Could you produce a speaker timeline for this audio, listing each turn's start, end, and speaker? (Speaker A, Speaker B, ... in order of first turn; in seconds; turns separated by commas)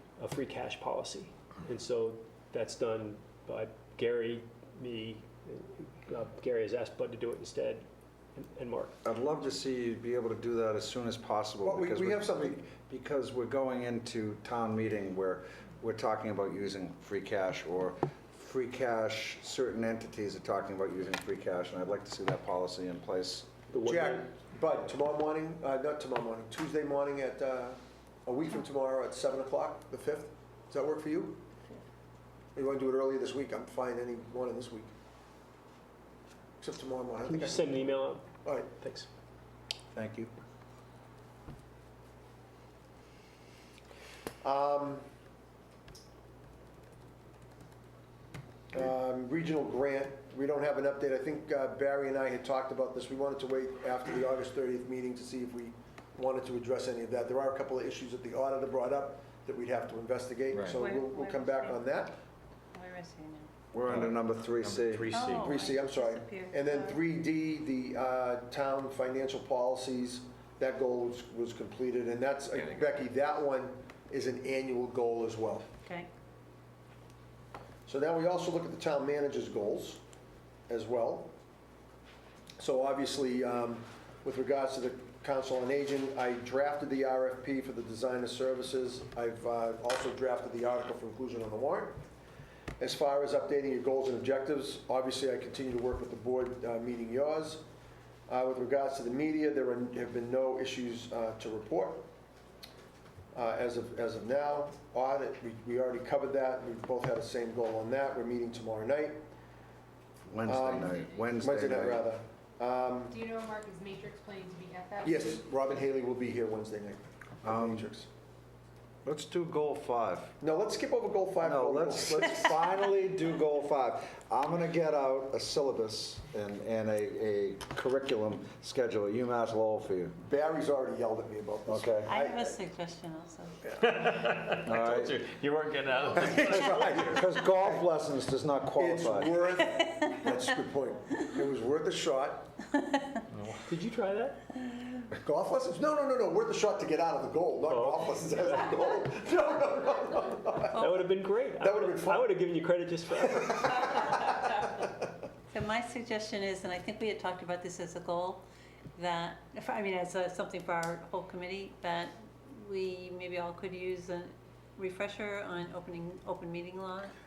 Speaker A: 0.2-7.8, Speaker A: 8.4-9.0, Speaker B: 9.0-23.5, Speaker C: 11.6-12.6, Speaker A: 23.7-24.3, Speaker C: 23.9-31.4, Speaker C: 32.5-34.9, Speaker C: 36.6-37.7, Speaker A: 37.3-39.1, Speaker C: 38.5-38.7, Speaker B: 39.9-40.3, Speaker C: 44.4-45.0, Speaker C: 48.7-62.2, Speaker D: 60.5-60.8, Speaker E: 60.7-61.8, Speaker E: 62.7-63.5, Speaker B: 63.7-65.2, Speaker D: 63.9-65.6, Speaker E: 65.1-67.0, Speaker C: 65.4-75.7, Speaker D: 72.5-72.9, Speaker C: 77.9-80.0, Speaker C: 80.7-81.3, Speaker C: 82.6-92.0, Speaker C: 92.8-97.7, Speaker C: 98.3-102.1, Speaker C: 103.3-109.2, Speaker B: 110.3-112.0, Speaker C: 110.5-113.2, Speaker F: 113.1-115.4, Speaker C: 115.0-118.1, Speaker B: 117.4-117.9, Speaker B: 119.0-120.3, Speaker C: 120.4-122.5, Speaker B: 121.4-130.2, Speaker C: 130.2-132.5, Speaker B: 131.7-132.1, Speaker E: 132.1-133.6, Speaker D: 133.8-137.2, Speaker B: 134.7-135.2, Speaker B: 136.5-139.4, Speaker C: 138.8-142.6, Speaker D: 143.3-143.7, Speaker A: 143.7-144.4, Speaker C: 145.1-151.0, Speaker A: 147.7-148.5, Speaker A: 150.7-153.9, Speaker C: 151.6-152.3, Speaker C: 153.4-155.0, Speaker E: 155.5-158.4, Speaker E: 159.0-167.1